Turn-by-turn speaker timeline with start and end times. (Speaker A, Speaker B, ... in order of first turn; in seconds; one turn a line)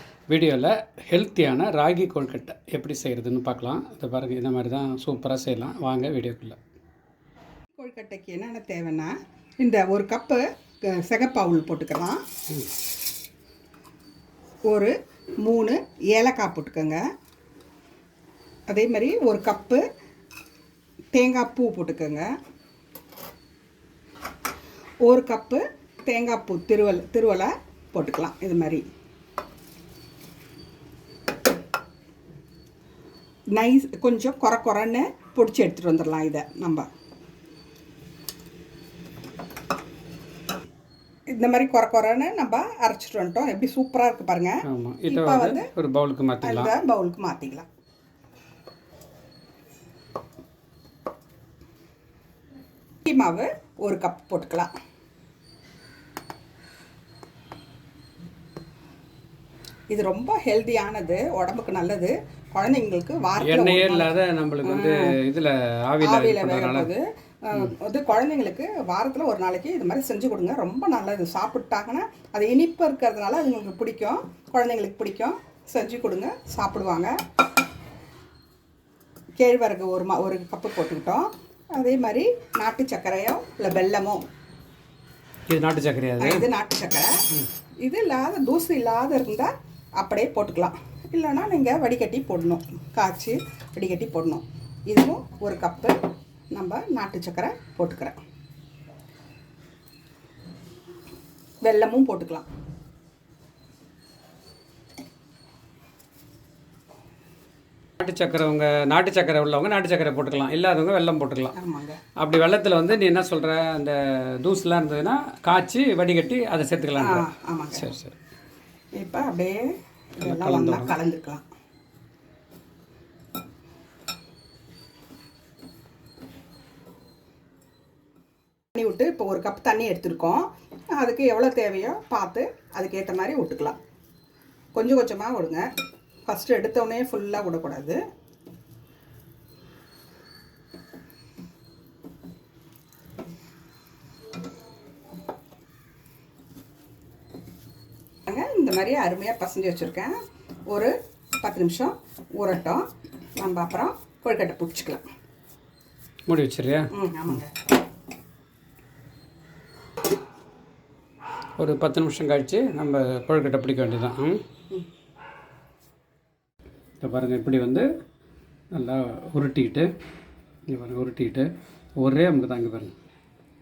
Speaker A: 0.3-6.6
Speaker B: 7.8-12.2
Speaker B: 14.7-17.0
Speaker B: 18.7-19.8
Speaker B: 21.1-22.3
Speaker B: 25.0-28.8
Speaker B: 33.5-36.9
Speaker B: 41.3-45.7
Speaker A: 44.6-46.7
Speaker B: 46.4-47.6
Speaker B: 53.0-54.7
Speaker B: 59.9-64.1
Speaker A: 63.4-66.9
Speaker B: 64.6-65.1
Speaker B: 66.0-77.1
Speaker B: 79.4-84.2
Speaker A: 85.5-86.4
Speaker B: 86.2-87.2
Speaker B: 87.8-96.0
Speaker B: 96.5-98.2
Speaker B: 101.6-102.5
Speaker A: 108.0-111.5
Speaker B: 111.5-112.0
Speaker A: 112.2-117.2
Speaker B: 117.0-117.9
Speaker A: 117.7-118.1
Speaker B: 119.0-121.4
Speaker A: 120.2-120.9
Speaker B: 128.8-133.8
Speaker B: 134.7-135.6
Speaker B: 136.3-138.0
Speaker B: 148.3-150.2
Speaker B: 150.7-152.8
Speaker B: 153.4-155.0
Speaker A: 156.3-156.9
Speaker B: 156.9-157.6
Speaker A: 161.6-164.4
Speaker A: 167.0-167.8
Speaker A: 168.7-169.9
Speaker A: 170.7-171.5
Speaker A: 172.0-172.9